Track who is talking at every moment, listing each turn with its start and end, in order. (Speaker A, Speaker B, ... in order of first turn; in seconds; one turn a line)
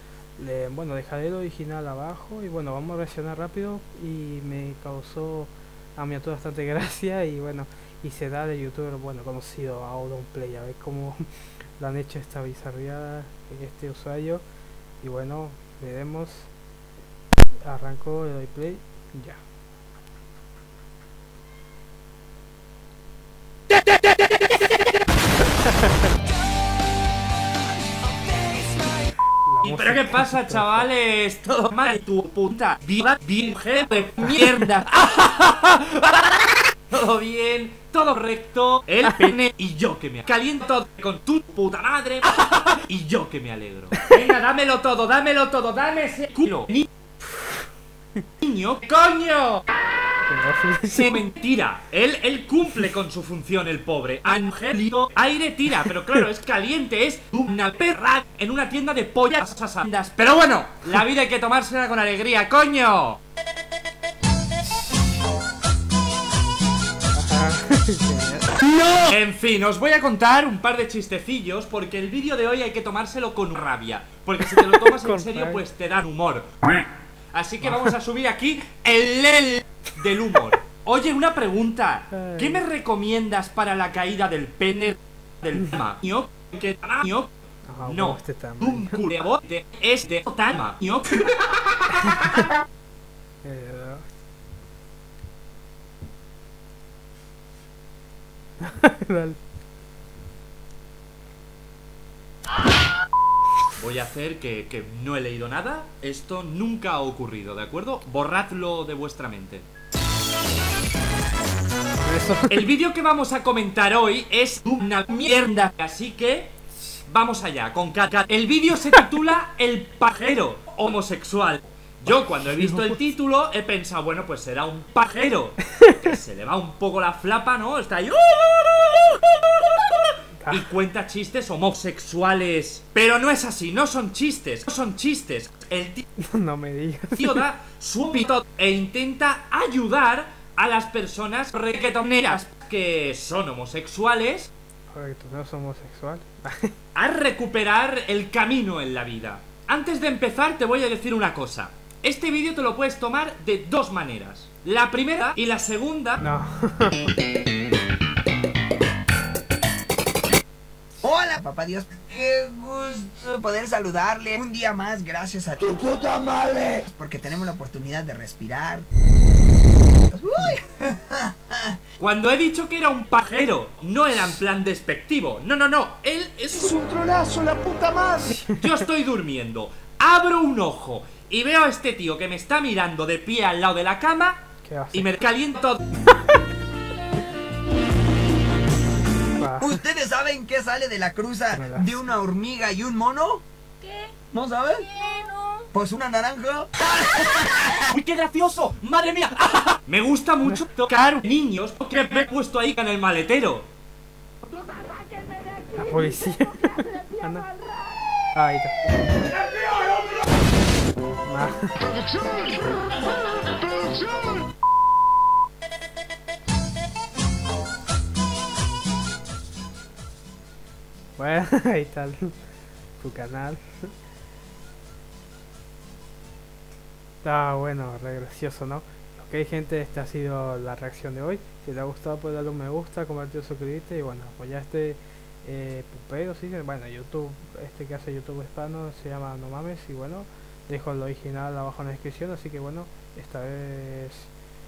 Speaker A: 0.4-11.2
Speaker A: 11.8-14.4
Speaker A: 15.0-16.5
Speaker A: 17.6-19.4
Speaker A: 29.4-30.9
Speaker B: 29.6-46.9
Speaker B: 48.4-49.6
Speaker A: 50.2-51.2
Speaker B: 50.9-63.2
Speaker A: 67.1-68.7
Speaker B: 68.9-76.5
Speaker A: 74.5-75.6
Speaker B: 77.3-87.3
Speaker A: 77.7-77.9
Speaker A: 82.1-82.7
Speaker A: 87.7-89.0
Speaker B: 87.8-91.2
Speaker A: 92.0-92.4
Speaker A: 93.4-94.1
Speaker A: 98.6-99.4
Speaker B: 103.8-109.7
Speaker A: 112.0-112.7
Speaker B: 112.5-116.6
Speaker B: 117.1-136.0
Speaker A: 122.6-122.9
Speaker A: 130.4-130.7
Speaker A: 136.2-137.4
Speaker B: 137.2-144.5
Speaker A: 144.9-146.7
Speaker B: 147.0-156.2
Speaker A: 156.2-157.1
Speaker C: 161.0-168.9
Speaker D: 166.1-166.7
Speaker C: 170.1-171.8
Speaker B: 172.0-185.8
Speaker D: 177.8-178.1
Speaker A: 178.3-178.7
Speaker A: 184.6-185.1
Speaker A: 189.4-189.8
Speaker C: 189.6-193.4
Speaker A: 191.5-192.1
Speaker D: 193.8-194.1
Speaker C: 194.3-194.9
Speaker D: 194.9-195.7
Speaker C: 195.7-197.7
Speaker B: 197.3-203.7
Speaker D: 204.8-205.6
Speaker A: 205.7-207.6
Speaker A: 208.3-208.8
Speaker A: 211.2-211.8
Speaker D: 212.1-212.4
Speaker D: 213.7-214.4
Speaker A: 221.2-222.3
Speaker A: 223.0-223.9
Speaker A: 227.2-244.3